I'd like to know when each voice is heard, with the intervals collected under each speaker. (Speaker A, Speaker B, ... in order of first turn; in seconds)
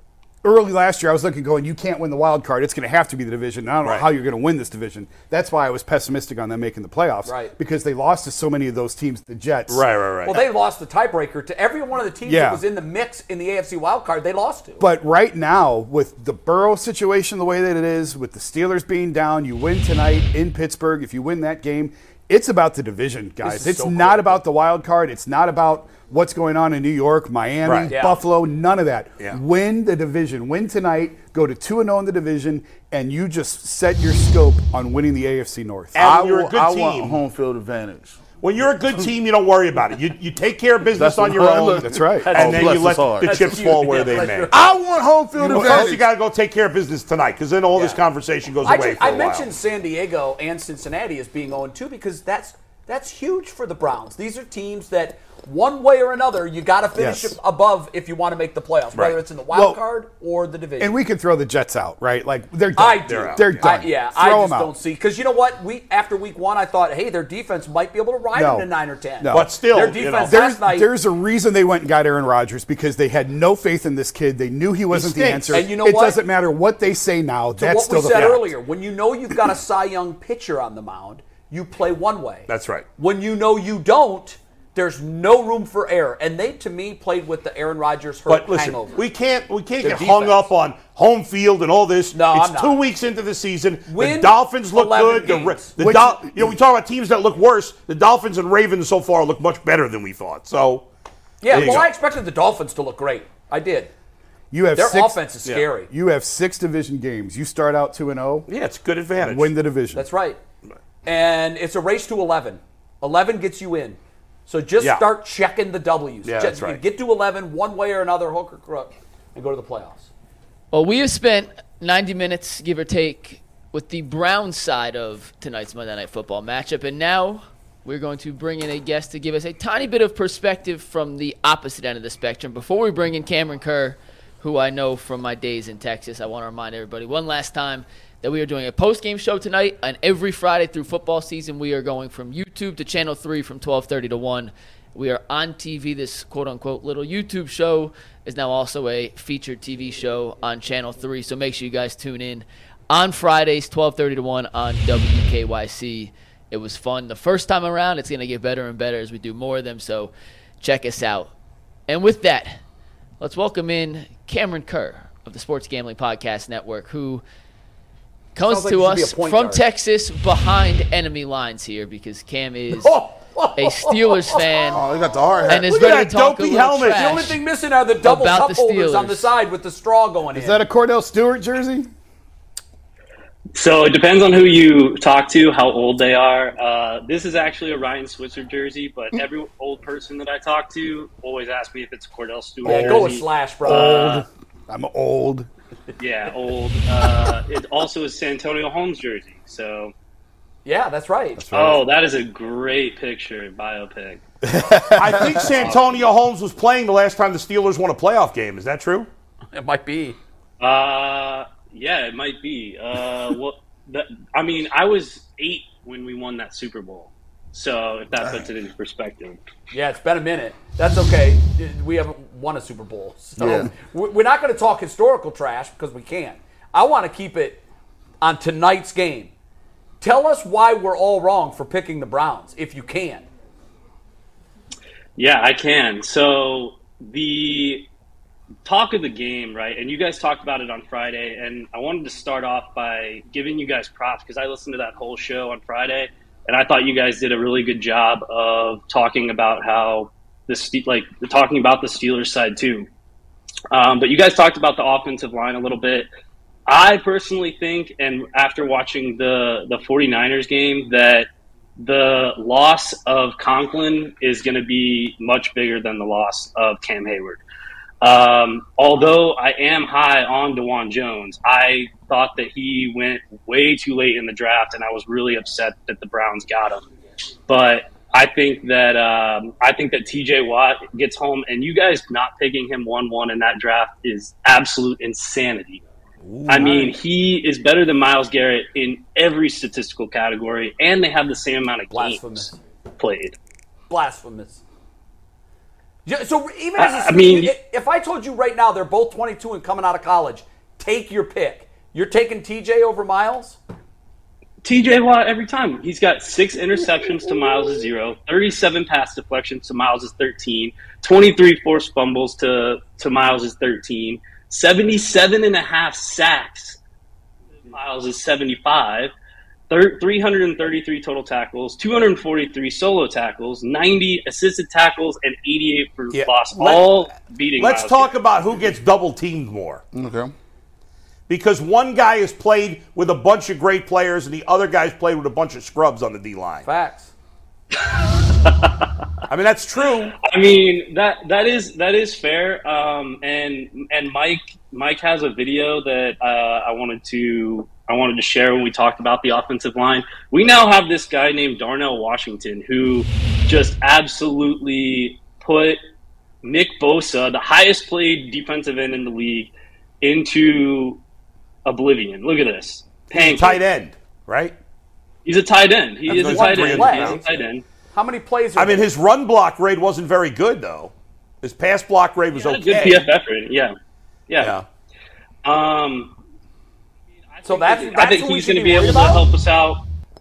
Speaker A: 0.4-9.8, 12.2-12.6, 14.8-36.0, 41.0-42.6, 45.4-46.0, 56.9-57.4, 59.5-59.8, 60.8-64.7, 68.3-68.7, 69.2-69.6, 70.2-78.5, 95.8-96.5, 104.5-105.2, 105.9-108.5, 109.2-110.1, 180.3-181.9, 192.6-195.5, 201.4-201.8, 204.5-205.5
Speaker B: 7.2-7.5, 10.2-14.8, 23.4-24.4, 27.9-28.2, 42.2-44.8, 47.7-48.0, 48.6-61.0, 62.8-70.9, 75.5-76.2, 77.6-89.0, 89.8-90.5, 92.1-92.8, 93.9-95.7, 101.4-103.9, 104.7-105.9, 109.9-110.4, 111.0-120.1, 168.4-169.6, 172.7-174.5, 176.8-180.6, 192.6-194.2, 200.6-201.5, 209.5-210.2, 219.7-227.6, 228.2-229.3, 230.0-233.3, 286.6-286.9, 291.9-292.5, 293.9-294.6, 296.1-303.6, 336.6-337.1, 366.1-367.3, 367.9-368.9, 377.4-379.3
Speaker C: 9.7-10.5, 27.6-27.9, 35.9-37.2, 38.4-44.5, 45.4-49.5, 58.9-59.2, 63.0-63.6, 69.3-70.4, 74.9-75.7, 78.1-78.4, 82.5-82.8, 88.3-100.8, 101.5-101.9, 108.5-109.5, 114.8-115.0, 116.2-116.8, 175.7-177.2, 204.9-209.1, 286.2-286.9, 327.6-329.8, 331.3-336.7, 339.3-340.1, 363.1-364.5, 366.1-367.3, 368.6-373.1, 374.4-374.6
Speaker D: 36.0-38.2, 41.0-43.7, 44.5-46.0, 174.7-175.7, 223.4-223.7, 329.9-330.3
Speaker E: 120.7-161.3, 161.9-162.6, 163.2-167.2, 168.3-172.9, 173.6-174.8, 175.5-177.4, 178.0-179.3
Speaker F: 183.6-194.2, 196.0-199.9, 201.5-204.2, 210.6-219.4, 235.2-237.9, 238.6-252.9, 253.7-256.1, 256.7-267.4, 268.0-276.9, 277.5-285.8, 286.5-293.4, 296.8-297.5, 304.6-316.8, 317.7-319.1, 319.7-328.1, 340.2-355.8, 356.4-361.0, 361.6-363.6, 365.2-367.6, 372.3-373.7, 374.3-374.5, 375.4-376.1, 377.2-379.8